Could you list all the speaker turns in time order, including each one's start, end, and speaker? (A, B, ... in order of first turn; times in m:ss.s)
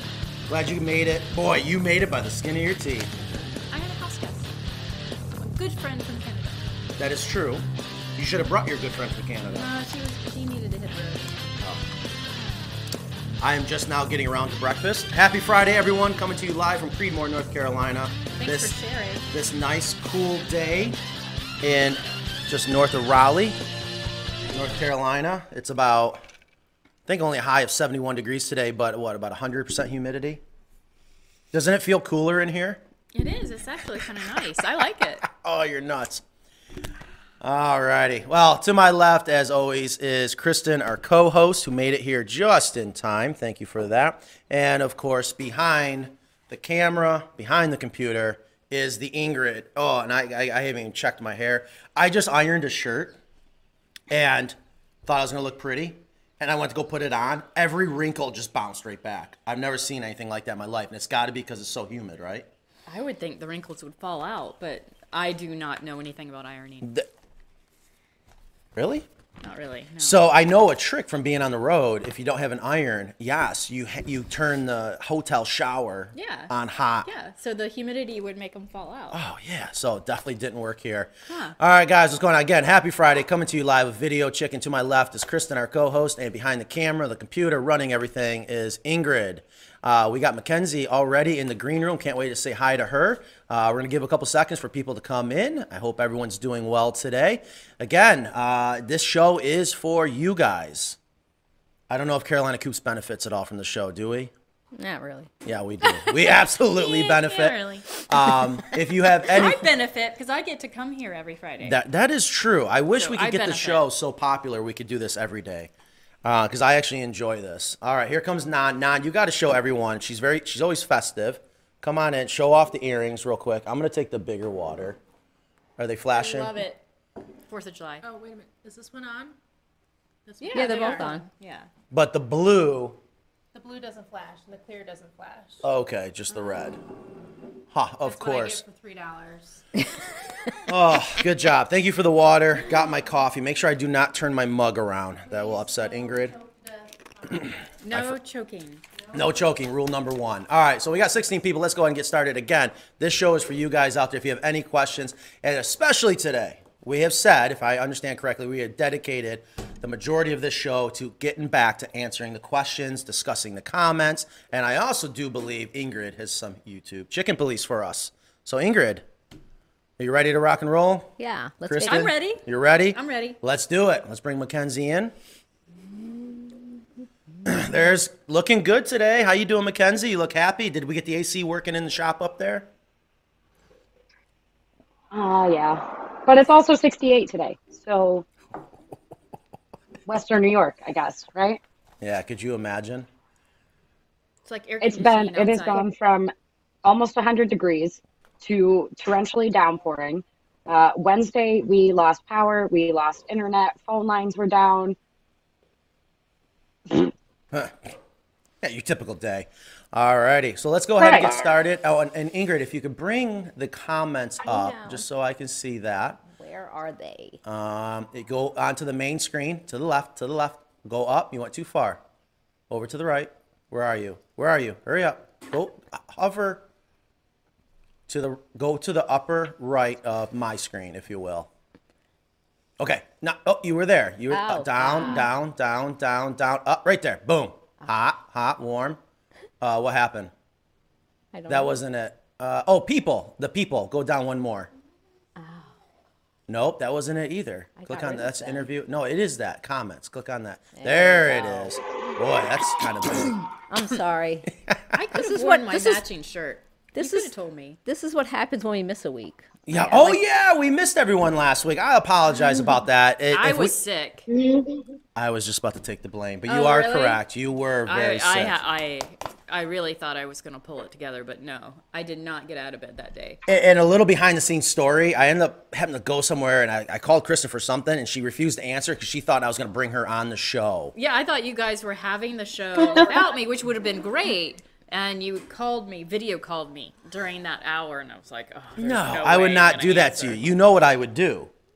0:00.5-0:03.1 A
0:03.7-0:04.5 B
0:05.4-0:06.6 B
0:07.0-0:09.7 A
0:09.5-0:11.6 B
0:13.4-0:18.8 A
0:18.3-0:19.2 B
0:19.3-0:21.0 A
0:21.6-0:23.6 A
0:24.5-0:26.2 A
0:27.0-0:30.4 A
0:31.5-0:32.8 A
0:33.1-0:35.2 B
0:35.2-0:36.2 A
0:37.4-0:53.2 A
0:54.1-0:54.5 A
0:55.0-1:02.5 A
1:02.9-1:06.9 B
1:08.8-1:09.0 A
1:09.4-1:10.2 B
1:10.0-1:17.1 A
1:16.1-1:16.5 B
1:17.0-1:19.2 B
1:19.1-1:41.0 A
1:21.3-1:21.6 B
1:41.9-1:44.3 A
1:44.7-1:45.3 C
1:45.4-1:49.6 A
1:45.8-1:48.0 B
1:49.2-1:51.8 B
1:51.6-1:55.7 A
1:53.0-1:53.8 B
1:56.2-2:05.0 A
2:05.8-2:06.5 A
2:06.1-2:06.8 B
2:07.5-2:08.0 B
2:08.0-2:09.3 D
2:10.2-2:11.2 D
2:10.4-2:11.7 B
2:10.5-2:11.2 C
2:11.9-2:13.0 A
2:13.5-2:15.6 D
2:15.6-2:16.8 A
2:17.7-2:18.6 A
2:18.0-2:19.8 D
2:20.7-2:26.3 A
2:25.2-2:27.6 D
2:27.3-2:28.1 A
2:27.8-2:28.8 B
2:29.0-2:29.4 D
2:29.1-2:49.0 A
2:50.0-2:55.1 A
2:51.2-2:52.1 C
2:51.8-2:53.4 B
2:56.0-2:56.6 C
2:57.4-3:02.7 A
3:05.1-3:08.2 E
3:10.1-3:11.6 E
3:12.0-3:13.1 A
3:14.4-3:15.8 B
3:14.8-3:16.3 E
3:16.8-3:25.0 E
3:27.5-3:28.0 A
3:28.6-3:36.2 A
3:31.0-3:31.3 E
3:34.4-3:35.0 C
3:36.3-3:37.4 C
3:37.4-3:42.0 A
3:42.7-3:46.6 A
3:48.1-3:51.5 A
3:52.8-3:59.0 A
3:54.3-3:55.3 C
3:59.6-4:00.3 A
4:01.3-4:01.8 C
4:01.5-4:04.7 A
4:05.4-4:05.7 C
4:06.5-4:13.4 A
4:07.8-4:08.7 C
4:10.8-4:11.7 C
4:13.3-4:14.5 C
4:14.9-4:17.8 B
4:15.1-4:16.0 C
4:16.9-4:17.3 C
4:17.8-4:20.2 C
4:19.7-4:23.7 A
4:23.3-4:24.3 B
4:24.3-4:24.8 E
4:25.2-4:28.6 A
4:26.5-4:27.2 B
4:27.9-4:33.4 B
4:33.4-4:40.9 A
4:40.9-4:50.4 B
4:48.8-4:51.5 A